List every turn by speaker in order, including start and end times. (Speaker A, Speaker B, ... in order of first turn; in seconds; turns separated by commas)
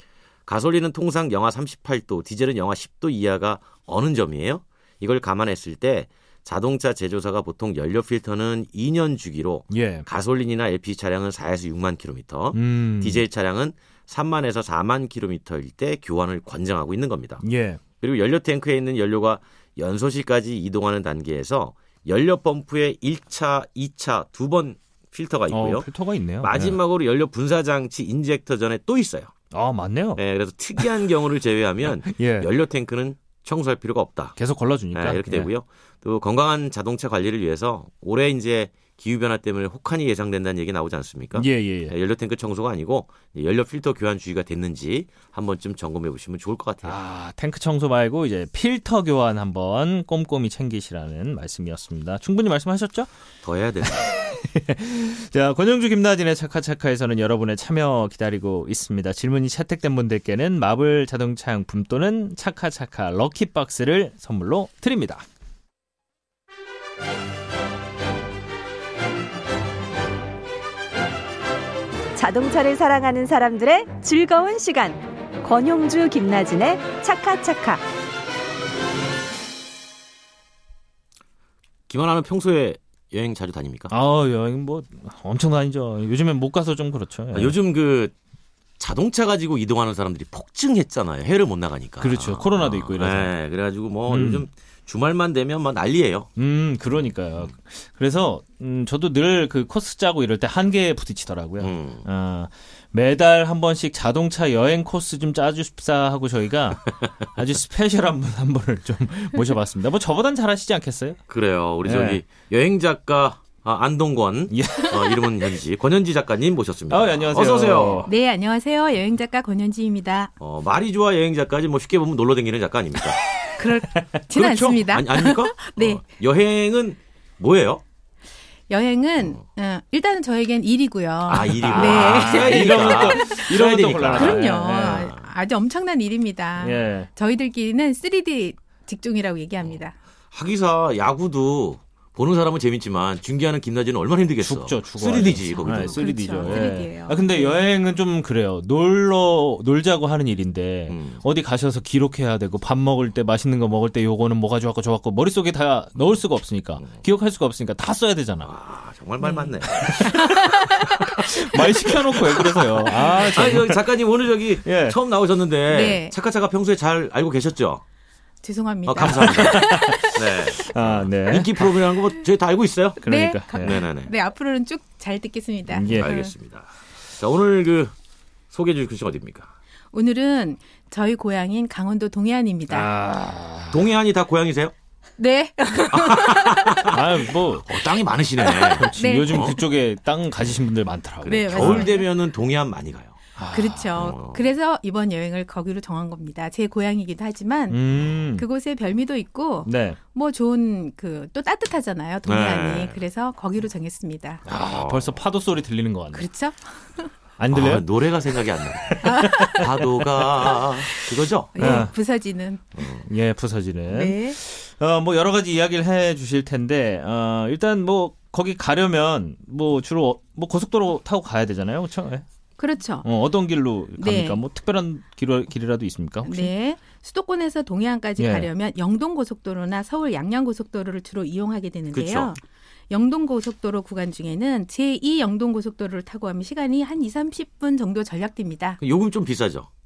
Speaker A: 0.5-17.4, Speaker B: 9.7-10.1, Speaker B: 12.5-13.2, Speaker B: 17.4-17.8, Speaker A: 18.0-25.9, Speaker B: 25.5-26.8, Speaker A: 26.4-29.3, Speaker B: 29.5-30.2, Speaker A: 30.1-34.4, Speaker B: 32.1-32.5, Speaker B: 34.4-35.5, Speaker A: 34.9-47.0, Speaker B: 41.4-41.9, Speaker B: 46.8-53.1, Speaker A: 53.4-54.1, Speaker B: 53.8-65.2, Speaker C: 72.2-77.8, Speaker A: 81.9-83.9, Speaker B: 83.9-87.6, Speaker A: 87.3-88.1, Speaker A: 88.8-96.3, Speaker B: 92.0-93.3, Speaker B: 94.1-94.5, Speaker B: 96.4-111.2, Speaker A: 101.6-102.0, Speaker A: 111.3-118.1, Speaker B: 111.8-112.2, Speaker B: 114.5-115.1, Speaker B: 116.9-118.1, Speaker D: 118.0-120.3, Speaker A: 120.4-123.2, Speaker D: 123.6-126.0, Speaker A: 124.3-127.8, Speaker D: 128.7-133.6, Speaker A: 131.3-135.1, Speaker B: 131.5-135.1, Speaker D: 134.1-139.9, Speaker B: 136.6-137.1, Speaker A: 140.3-146.7, Speaker B: 144.4-158.5, Speaker D: 145.2-147.6, Speaker A: 150.9-151.2, Speaker A: 158.4-160.3, Speaker D: 159.2-160.9, Speaker B: 159.8-160.3, Speaker A: 160.9-167.8, Speaker B: 161.2-163.9, Speaker B: 164.6-165.0, Speaker D: 165.7-166.1, Speaker D: 168.4-170.2, Speaker A: 168.8-173.0, Speaker B: 169.0-171.9, Speaker B: 173.0-173.8, Speaker D: 173.1-176.3, Speaker A: 173.6-174.1, Speaker B: 175.7-176.1, Speaker A: 175.8-177.9, Speaker A: 178.5-179.5, Speaker D: 179.9-182.9, Speaker B: 182.7-183.8, Speaker A: 183.7-184.7, Speaker D: 185.2-187.0, Speaker A: 186.0-186.9, Speaker B: 186.9-187.7, Speaker A: 187.7-189.6, Speaker D: 188.4-189.6, Speaker B: 188.7-191.9, Speaker A: 191.2-193.2, Speaker D: 191.2-192.1, Speaker B: 193.4-194.0, Speaker D: 193.5-197.8, Speaker A: 193.9-194.4, Speaker B: 197.7-198.4, Speaker D: 198.3-204.4, Speaker B: 199.7-200.0, Speaker A: 202.2-203.0, Speaker B: 204.4-206.3, Speaker A: 204.7-205.2, Speaker D: 206.1-207.1, Speaker B: 207.4-207.8, Speaker A: 207.5-211.9, Speaker B: 208.8-210.6, Speaker D: 209.0-209.8, Speaker D: 211.5-212.6, Speaker B: 211.6-211.9, Speaker A: 212.8-213.1, Speaker B: 213.1-222.2, Speaker D: 213.9-214.4, Speaker D: 222.6-223.1, Speaker B: 223.0-226.5, Speaker D: 224.0-224.4, Speaker D: 226.2-232.4, Speaker B: 228.2-228.5, Speaker A: 231.9-232.3, Speaker D: 232.9-238.8, Speaker A: 238.8-239.7